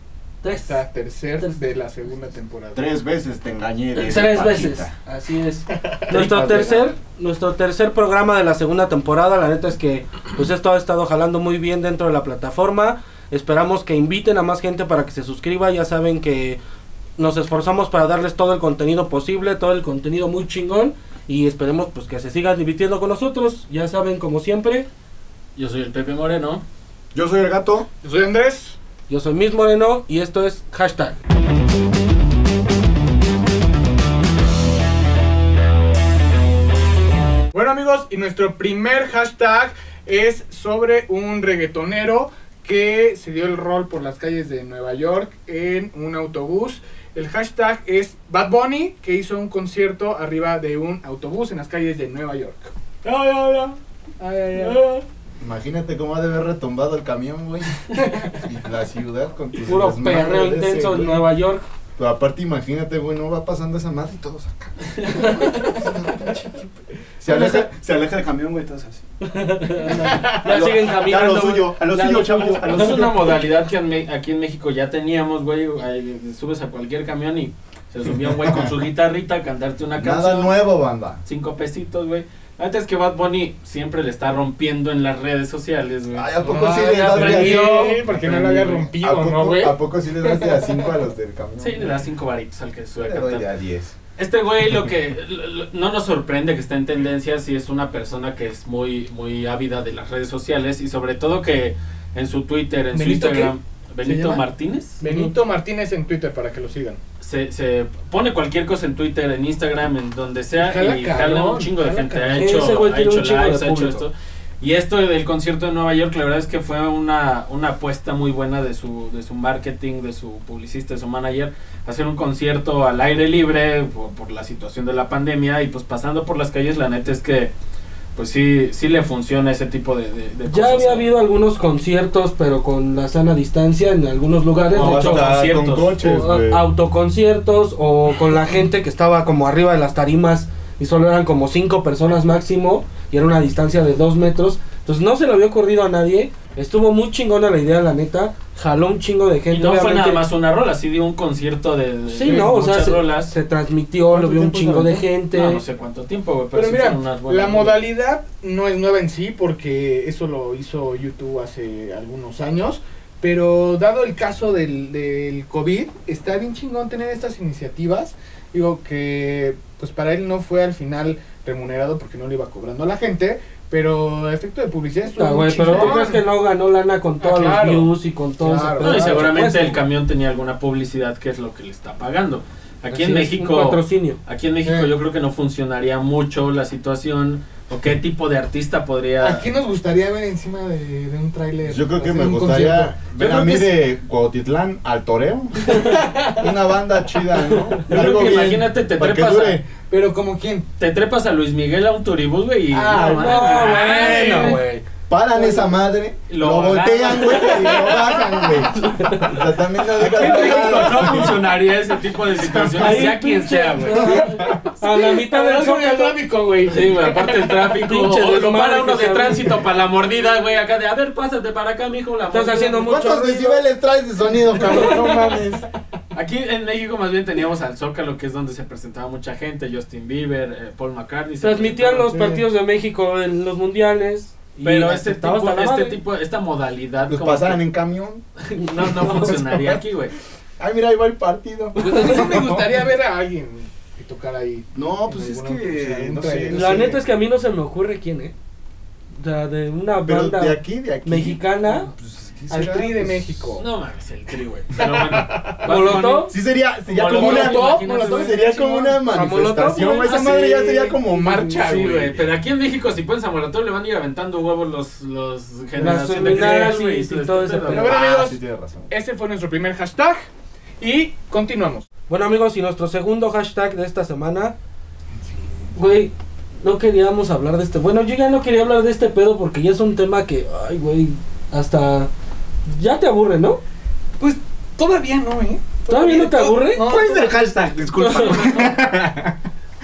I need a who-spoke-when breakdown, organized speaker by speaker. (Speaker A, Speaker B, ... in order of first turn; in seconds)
Speaker A: 0.4-0.8, 4.0-16.6, 17.2-24.9, 29.1-31.2, 59.6-61.7, 65.1-65.8, 67.3-67.7, 69.2-72.9, 86.8-88.0, 105.0-105.3, 112.3-114.0, 130.5-135.3, 136.0-150.2, 152.1-155.6, 175.1-179.8, 182.9-184.2, 203.0-204.6, 208.8-209.4, 210.0-211.2, 212.6-216.2, 217.8-219.6, 222.3-223.6, 224.7-225.0, 231.4-236.0, 241.9-242.2, 246.5-248.3, 249.2-251.9, 255.6-256.4, 259.1-259.9, 265.8-267.9, 272.1-274.5, 275.7-282.1, 282.6-283.6, 285.9-286.8
Speaker B: 0.5-2.8, 28.0-28.8, 37.5-54.9, 57.9-58.4, 65.1-66.7, 70.0-70.3, 86.4-90.9, 102.9-104.4, 105.0-107.0, 110.5-112.6, 152.2-152.5, 156.5-176.2, 177.2-179.2, 184.6-184.9, 189.2-193.4, 195.7-196.5, 197.9-198.3, 199.8-200.7, 202.7-204.8, 205.4-205.7, 207.6-208.0, 210.1-211.4, 212.5-213.1, 214.0-217.1, 224.7-225.1, 241.8-246.9, 252.5-253.7, 254.8-255.6, 256.9-259.0, 259.7-262.1, 266.2-266.6, 267.7-270.2, 270.8-271.9, 284.2-287.4
Speaker C: 2.7-4.9, 27.1-27.9, 55.4-61.3, 62.0-66.4, 67.2-69.0, 70.4-73.4, 78.0-78.7, 80.0-81.2, 86.1-92.0, 93.0-93.9, 134.7-136.6, 154.1-155.0, 191.7-199.6, 205.1-211.4, 214.1-214.6, 222.9-225.7, 237.1-238.2, 239.1-239.4, 240.6-242.6, 244.7-247.0, 250.0-253.5, 256.3-262.2, 267.7-268.9, 286.8-289.4
Speaker D: 6.1-6.9, 25.6-26.6, 54.6-54.9, 72.5-80.5, 81.2-86.3, 91.6-93.5, 94.2-105.0, 107.2-127.5, 128.2-131.1, 134.7-135.9, 149.5-153.3, 155.3-157.8, 175.6-176.0, 178.8-189.4, 197.8-199.6, 200.8-204.6, 206.3-208.0, 210.1-214.2, 216.6-222.9, 226.1-232.2, 234.6-237.6, 238.5-240.1, 253.6-256.3, 256.9-258.2, 261.6-268.1, 288.1-288.6